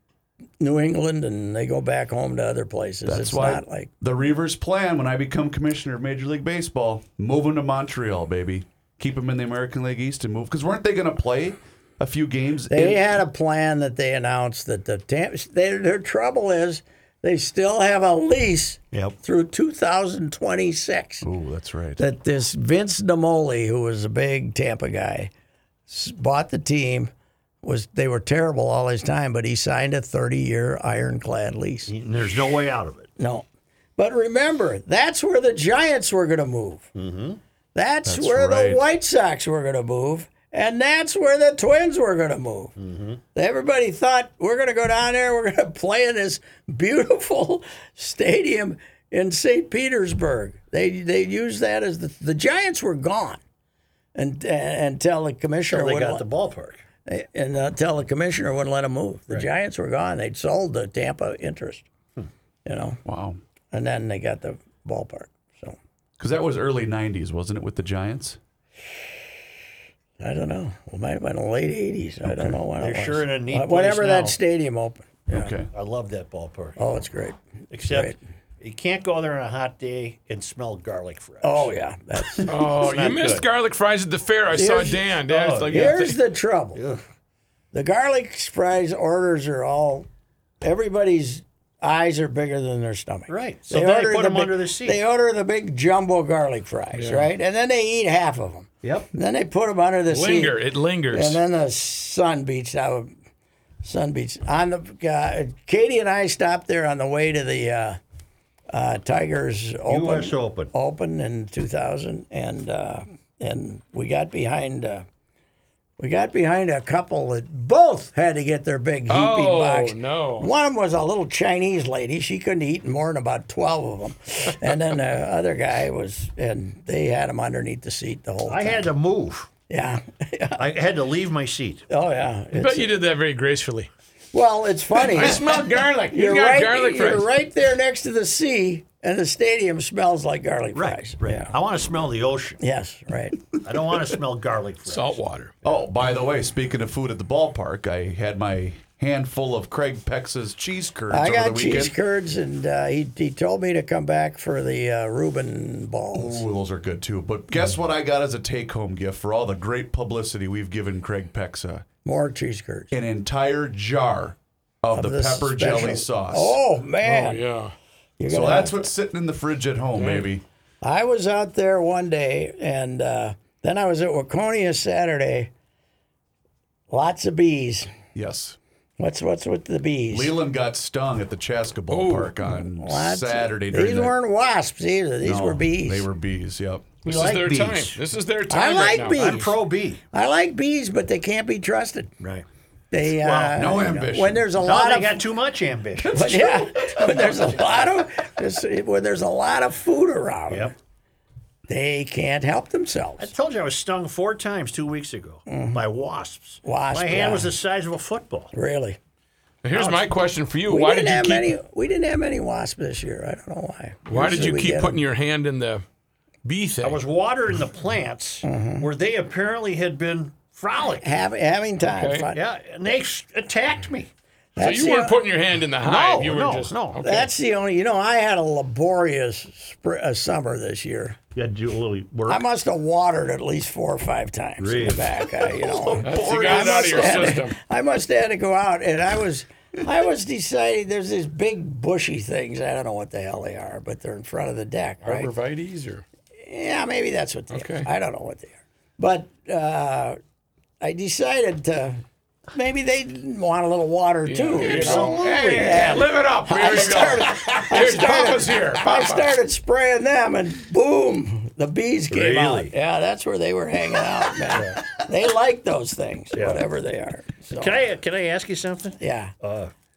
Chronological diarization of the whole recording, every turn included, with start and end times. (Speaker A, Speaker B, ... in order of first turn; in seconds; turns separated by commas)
Speaker A: 0.6-3.9, Speaker B: 3.0-13.1, Speaker A: 12.7-21.3, Speaker B: 21.2-22.0, Speaker A: 22.0-25.3, Speaker A: 25.9-27.1, Speaker A: 27.6-31.9, Speaker C: 31.9-33.1, Speaker A: 33.2-33.5, Speaker A: 34.0-36.9, Speaker C: 37.0-37.4, Speaker A: 37.8-42.7, Speaker B: 38.1-38.8, Speaker C: 42.8-43.2, Speaker A: 43.3-53.4, Speaker A: 54.2-56.2, Speaker C: 55.7-56.8, Speaker A: 57.1-61.9, Speaker A: 62.6-63.0, Speaker B: 63.0-63.4, Speaker A: 63.7-65.8, Speaker B: 66.2-68.4, Speaker A: 70.2-75.5, Speaker C: 72.8-74.4, Speaker B: 75.3-75.7, Speaker C: 75.7-76.8, Speaker A: 76.8-78.2, Speaker C: 77.7-81.7, Speaker A: 81.4-82.6, Speaker C: 82.4-83.5, Speaker D: 82.5-86.2, Speaker A: 84.5-85.1, Speaker C: 85.3-86.0, Speaker A: 85.7-86.8, Speaker C: 86.8-87.0, Speaker A: 87.7-90.1, Speaker A: 90.6-100.6, Speaker C: 93.3-95.0, Speaker D: 97.0-97.3, Speaker C: 98.8-99.1, Speaker D: 100.1-101.4, Speaker A: 101.1-103.1, Speaker A: 103.8-108.0, Speaker A: 108.7-115.1, Speaker C: 109.9-110.7, Speaker A: 116.0-128.9, Speaker D: 119.1-120.5, Speaker C: 128.5-129.5, Speaker A: 129.7-130.7, Speaker C: 130.6-131.8, Speaker A: 131.9-132.9, Speaker D: 132.6-133.9, Speaker A: 134.3-141.5, Speaker D: 135.0-137.3, Speaker C: 140.8-142.6, Speaker A: 142.6-143.4, Speaker C: 143.6-145.2, Speaker D: 144.9-145.5, Speaker B: 145.6-151.9, Speaker A: 151.1-156.4, Speaker B: 156.1-161.9, Speaker A: 162.1-162.9, Speaker B: 162.9-166.6, Speaker A: 164.9-167.4, Speaker D: 167.0-167.7, Speaker A: 168.2-168.8, Speaker B: 168.3-170.4, Speaker D: 170.0-170.3, Speaker A: 170.8-175.5, Speaker A: 176.9-177.9, Speaker B: 178.2-178.6, Speaker A: 179.0-180.3, Speaker B: 180.1-184.2, Speaker D: 181.9-182.3, Speaker A: 182.5-186.1, Speaker B: 185.2-187.1, Speaker D: 187.1-189.5, Speaker C: 187.1-188.0, Speaker A: 188.5-189.5, Speaker C: 189.1-190.0, Speaker A: 190.1-192.1, Speaker A: 192.9-195.2, Speaker C: 193.1-193.9, Speaker B: 193.6-194.4, Speaker C: 194.6-196.6, Speaker A: 196.0-200.7, Speaker A: 201.7-203.3, Speaker C: 203.2-208.5, Speaker A: 205.5-205.8, Speaker A: 206.6-207.5, Speaker A: 208.5-209.0, Speaker D: 209.6-211.5, Speaker C: 209.7-210.1, Speaker A: 210.7-215.0, Speaker D: 214.1-215.8, Speaker D: 216.4-217.0, Speaker C: 216.8-221.1, Speaker A: 218.4-218.9, Speaker A: 221.0-222.4, Speaker D: 221.8-222.3, Speaker C: 222.3-224.1, Speaker A: 224.6-225.2, Speaker D: 224.6-227.3, Speaker C: 225.8-227.0, Speaker A: 227.0-231.2, Speaker C: 231.3-232.4, Speaker A: 232.3-245.3, Speaker C: 234.6-235.2, Speaker B: 235.5-237.4, Speaker D: 236.0-237.6, Speaker D: 245.0-246.0, Speaker A: 246.4-250.2, Speaker D: 247.5-247.9, Speaker A: 250.8-252.0, Speaker A: 252.5-267.8, Speaker D: 254.3-259.3, Speaker C: 254.6-256.0, Speaker C: 262.1-262.7, Speaker C: 266.3-266.6, Speaker C: 267.5-269.7, Speaker A: 269.0-269.3